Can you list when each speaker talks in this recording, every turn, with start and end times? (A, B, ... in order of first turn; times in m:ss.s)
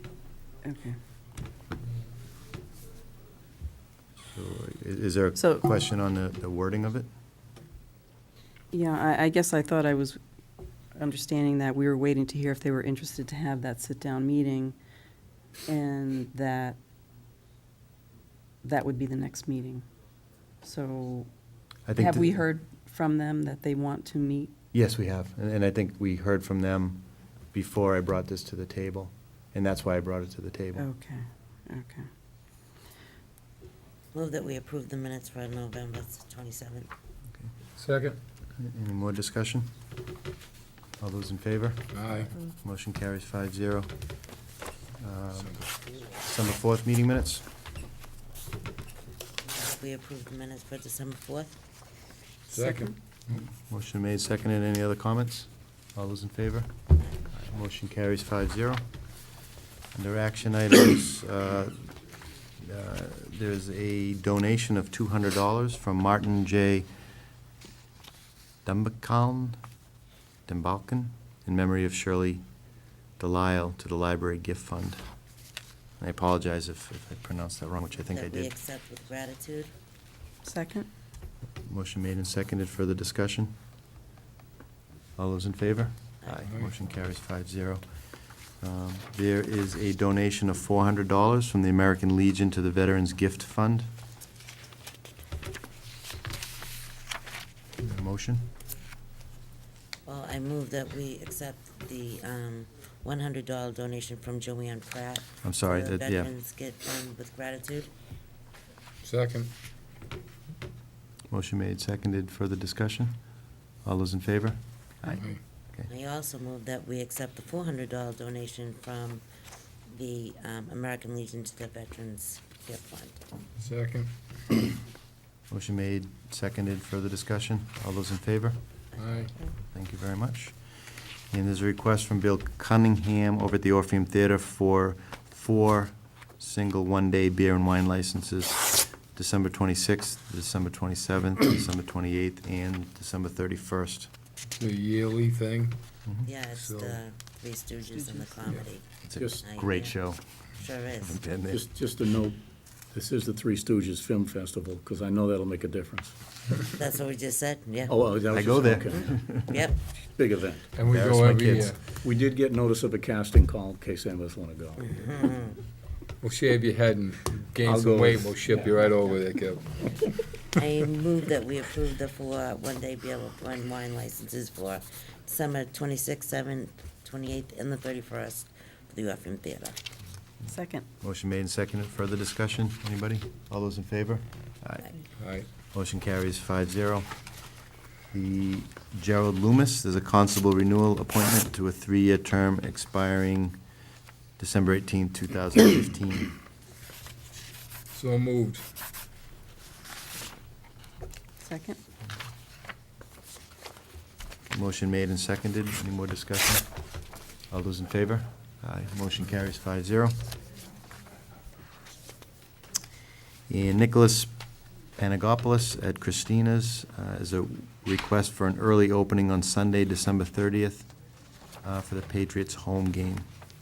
0:00.6-0:01.0 A
0:04.3-0:07.1 B
0:05.4-0:05.6 A
0:08.7-0:10.2 A
0:11.0-0:14.8 A
0:15.7-0:16.8 A
0:18.6-0:19.8 A
0:20.6-0:21.3 A
0:21.9-0:22.3 B
0:21.9-0:24.5 A
0:24.7-0:30.9 B
0:30.8-0:32.1 A
0:34.1-0:36.9 C
0:37.8-0:38.2 D
0:38.6-0:39.7 B
0:41.0-0:43.9 B
0:41.9-0:42.3 D
0:45.0-0:47.4 B
0:49.5-0:51.5 C
0:52.5-0:53.4 D
0:52.6-0:52.9 A
0:53.3-0:56.7 B
0:57.3-0:58.8 B
0:59.9-1:01.9 B
1:02.6-1:06.9 B
1:08.6-1:09.6 B
1:10.5-1:12.4 B
1:13.2-1:15.0 B
1:16.0-1:18.5 B
1:18.1-1:19.7 C
1:20.4-1:20.9 A
1:21.6-1:23.5 B
1:25.2-1:27.8 B
1:28.6-1:33.9 B
1:37.8-1:38.5 B
1:40.0-1:47.9 C
1:45.4-1:46.3 B
1:49.0-1:49.5 D
1:51.3-1:53.2 B
1:53.8-1:55.2 B
1:55.1-1:55.4 D
1:55.9-1:59.2 C
1:59.9-2:03.2 C
2:03.6-2:04.1 D
2:05.5-2:08.6 B
2:09.0-2:09.3 D
2:09.6-2:10.6 B
2:11.3-2:24.1 B
2:24.6-2:25.8 D
2:26.2-2:28.8 C
2:26.5-2:27.0 D
2:29.0-2:30.2 B
2:29.1-2:29.4 E
2:29.4-2:30.0 C
2:30.6-2:31.2 C
2:31.0-2:31.6 B
2:31.5-2:32.4 E
2:32.9-2:36.2 E
2:36.7-2:38.0 C
2:37.8-2:39.2 E
2:38.3-2:39.6 B
2:39.5-2:39.8 C
2:39.9-2:40.7 E
2:40.8-2:41.8 D
2:40.9-2:41.7 B
2:42.0-2:45.0 E
2:44.8-2:45.6 C
2:46.2-2:49.8 D
2:47.6-2:48.9 E
2:50.5-2:59.8 C
3:00.5-3:00.8 A
3:01.0-3:04.9 B
3:05.2-3:05.5 D
3:05.7-3:07.1 B
3:08.1-3:13.6 B
3:14.4-3:16.3 B
3:17.9-3:18.6 D
3:21.4-3:21.8 A
3:24.5-3:26.7 B
3:27.5-3:30.2 B
3:33.5-3:34.3 B
3:35.0-3:40.9 B
3:41.6-3:43.3 B